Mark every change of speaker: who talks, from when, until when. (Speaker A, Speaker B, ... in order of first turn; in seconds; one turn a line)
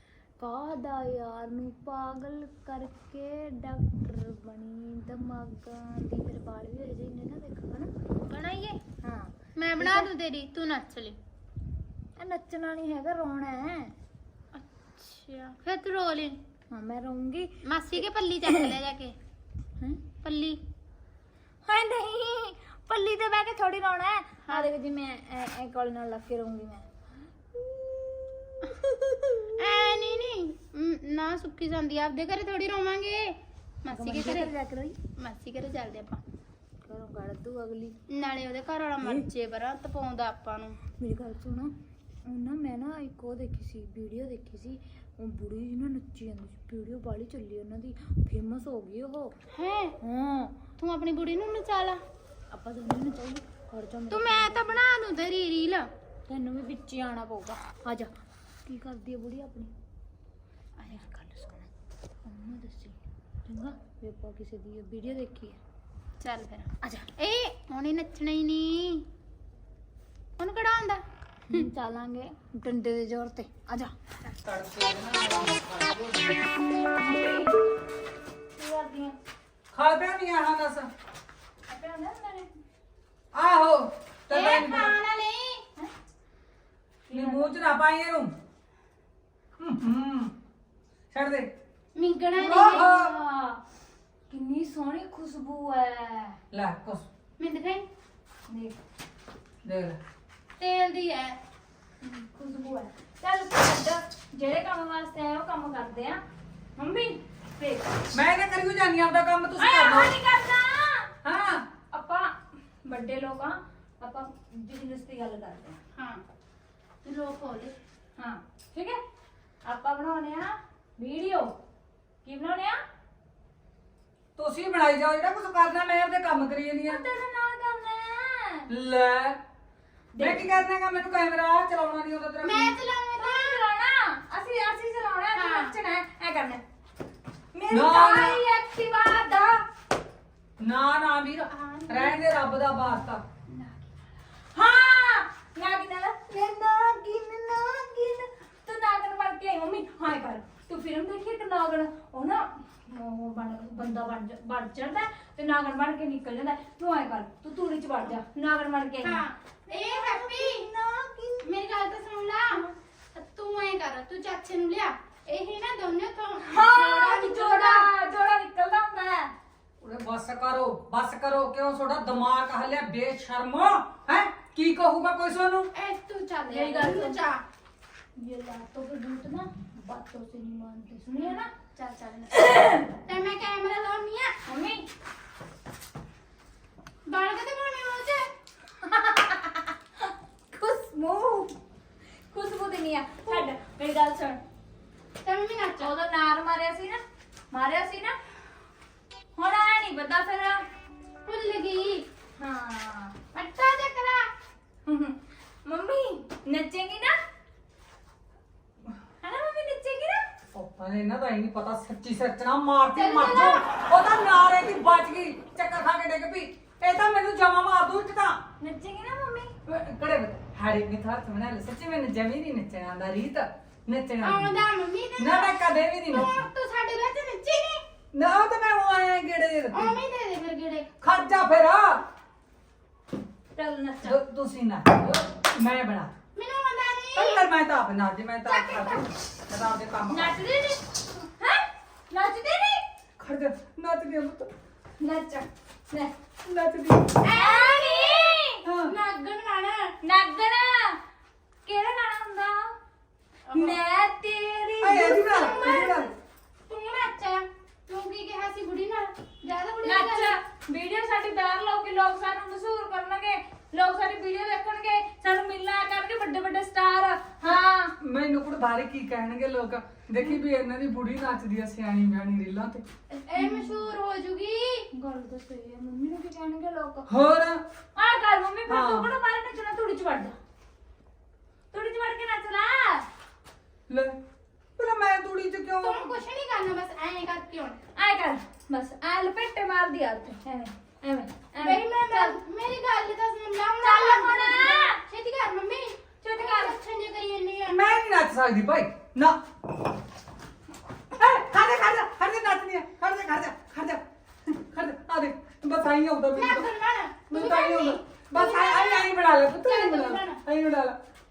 Speaker A: 0.4-7.9
Speaker B: 8.3-8.8
Speaker A: 9.0-10.1
Speaker B: 9.6-11.2
Speaker A: 12.2-13.9
Speaker B: 14.5-16.4
Speaker A: 16.7-17.5
Speaker B: 17.6-19.1
Speaker A: 18.4-18.7
Speaker B: 20.2-20.6
Speaker A: 21.6-26.9
Speaker A: 27.5-29.5
Speaker B: 29.6-34.5
Speaker A: 33.9-35.0
Speaker B: 35.2-36.2
Speaker A: 36.8-38.0
Speaker B: 38.1-40.8
Speaker A: 41.0-41.7
Speaker A: 42.2-49.3
Speaker B: 49.5-50.0
Speaker A: 50.0-50.6
Speaker B: 50.8-52.0
Speaker A: 52.5-54.8
Speaker B: 54.1-55.9
Speaker A: 56.3-58.1
Speaker A: 58.6-59.7
Speaker B: 60.8-61.0
Speaker A: 60.9-61.7
Speaker A: 62.2-65.6
Speaker B: 66.2-69.0
Speaker A: 66.8-67.1
Speaker B: 70.4-71.7
Speaker A: 71.5-73.9
Speaker C: 74.4-76.4
Speaker A: 77.0-77.6
Speaker A: 78.5-79.2
Speaker C: 79.7-80.9
Speaker A: 81.7-82.5
Speaker C: 83.3-85.0
Speaker B: 84.3-85.6
Speaker A: 87.1-87.5
Speaker C: 87.1-88.3
Speaker C: 89.6-90.3
Speaker C: 91.1-91.5
Speaker B: 91.9-92.9
Speaker A: 92.4-93.6
Speaker C: 92.5-93.1
Speaker A: 94.3-96.4
Speaker C: 96.5-97.0
Speaker B: 97.4-97.8
Speaker A: 98.5-98.8
Speaker C: 99.6-100.0
Speaker B: 100.6-101.4
Speaker A: 102.0-106.2
Speaker A: 106.8-108.0
Speaker C: 108.1-110.1
Speaker A: 109.6-111.1
Speaker C: 111.2-111.7
Speaker A: 111.9-115.8
Speaker B: 116.0-116.2
Speaker B: 117.0-117.7
Speaker A: 118.2-119.0
Speaker A: 119.6-121.5
Speaker A: 122.2-122.8
Speaker C: 124.3-127.0
Speaker A: 126.9-128.7
Speaker C: 128.7-129.4
Speaker A: 130.1-130.5
Speaker C: 130.2-132.7
Speaker B: 132.4-133.6
Speaker A: 133.2-136.6
Speaker B: 135.3-135.7
Speaker A: 137.5-139.6
Speaker C: 137.7-138.4
Speaker C: 140.6-143.2
Speaker B: 141.5-142.2
Speaker B: 143.5-143.9
Speaker A: 144.5-161.6
Speaker B: 159.0-160.6
Speaker B: 161.4-162.6
Speaker B: 163.1-167.9
Speaker A: 166.4-169.3
Speaker C: 169.8-175.7
Speaker B: 175.7-177.4
Speaker A: 176.5-177.2
Speaker A: 178.2-181.5
Speaker B: 181.2-182.4
Speaker A: 182.3-182.9
Speaker B: 183.1-184.4
Speaker A: 184.4-184.8
Speaker B: 187.1-188.3
Speaker A: 188.8-191.6
Speaker A: 192.3-194.4
Speaker B: 195.2-195.9
Speaker A: 195.8-198.2
Speaker A: 199.3-200.7
Speaker B: 201.2-202.1
Speaker A: 202.4-203.1
Speaker B: 203.3-204.3
Speaker A: 204.8-207.2
Speaker A: 209.2-210.2
Speaker C: 210.5-218.4
Speaker B: 212.9-213.7
Speaker A: 218.6-219.5
Speaker C: 219.7-224.6
Speaker B: 224.2-225.6
Speaker C: 225.2-226.5
Speaker B: 226.1-227.8
Speaker C: 228.1-229.9
Speaker B: 229.7-230.9
Speaker C: 231.0-232.0
Speaker A: 233.6-234.2
Speaker C: 234.0-236.1
Speaker B: 236.3-237.4
Speaker C: 237.1-240.3
Speaker B: 238.5-239.1
Speaker A: 240.1-242.8
Speaker C: 243.2-244.5
Speaker A: 245.0-246.1
Speaker C: 246.4-247.2
Speaker B: 247.2-249.9
Speaker A: 247.2-248.5
Speaker C: 248.6-248.9
Speaker A: 250.0-251.0
Speaker A: 251.7-252.7
Speaker B: 253.5-253.8
Speaker A: 253.5-255.4
Speaker C: 254.8-256.1
Speaker B: 254.9-256.1
Speaker B: 256.7-260.4
Speaker A: 259.8-267.9
Speaker C: 268.0-272.8
Speaker B: 273.1-274.9
Speaker A: 273.4-273.9
Speaker A: 274.9-277.1
Speaker C: 277.1-277.6
Speaker A: 277.9-280.3
Speaker C: 278.7-279.1
Speaker A: 281.7-283.1
Speaker C: 283.9-284.1
Speaker C: 284.8-286.1
Speaker B: 285.8-287.8
Speaker A: 287.9-292.4
Speaker B: 291.6-298.0
Speaker A: 293.8-295.0
Speaker A: 296.2-296.8
Speaker C: 297.7-299.4
Speaker C: 301.1-306.7
Speaker B: 306.3-309.1
Speaker C: 307.3-310.9
Speaker B: 309.6-310.4